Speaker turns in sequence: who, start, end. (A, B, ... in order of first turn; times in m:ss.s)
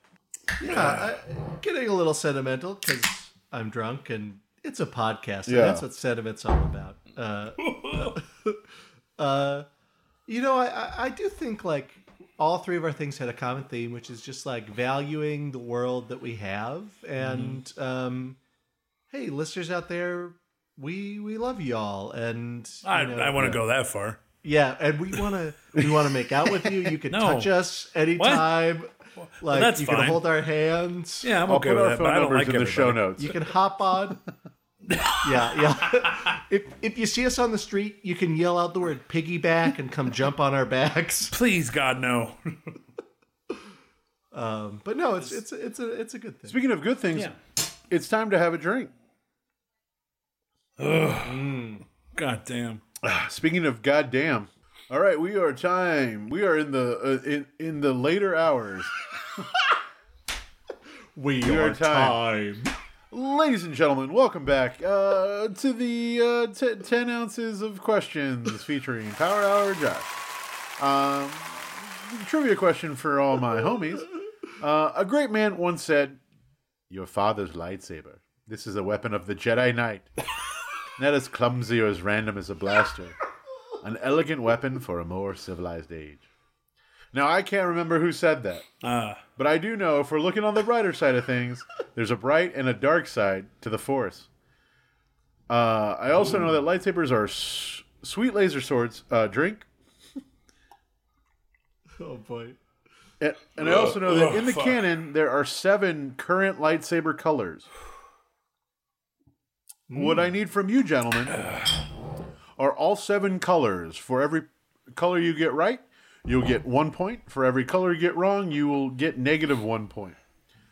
0:00.6-0:08.6 A
0:00.7-0:01.0 B
0:05.5-0:05.8 C
0:07.6-0:08.2 B
0:09.2-0:09.7 A
0:10.3-0:18.4 A
0:17.2-0:17.6 B
0:19.1-0:23.6 A
0:22.8-0:24.2 B
0:24.4-0:31.3 A
0:25.8-0:26.0 C
0:27.0-0:27.6 B
0:28.2-0:28.6 B
0:29.2-0:30.2 B
0:31.2-0:33.0 B
0:31.5-0:33.4 C
0:33.2-0:34.2 A
0:34.9-0:35.7 B
0:35.2-0:41.3 A
0:41.3-0:42.7 B
0:44.3-0:46.6 A
0:46.5-0:47.3 C
0:47.9-0:48.9 C
0:50.8-0:51.6 B
0:51.2-0:51.8 A
0:52.2-0:52.8 B
0:53.0-0:59.4 C
1:01.2-1:02.7 A
1:01.4-1:02.2 C
1:03.1-1:10.1 C
1:10.8-1:16.2 C
1:16.9-1:20.1 C
1:21.0-1:23.2 C
1:23.8-1:26.2 C
1:27.1-1:28.7 C
1:28.8-1:29.2 B
1:29.4-1:34.3 C
1:35.5-1:39.7 C
1:42.0-1:42.6 A
1:43.2-1:47.7 C
1:43.6-1:44.8 B
1:49.9-1:50.3 A
1:49.9-1:51.4 C
1:52.6-2:00.2 C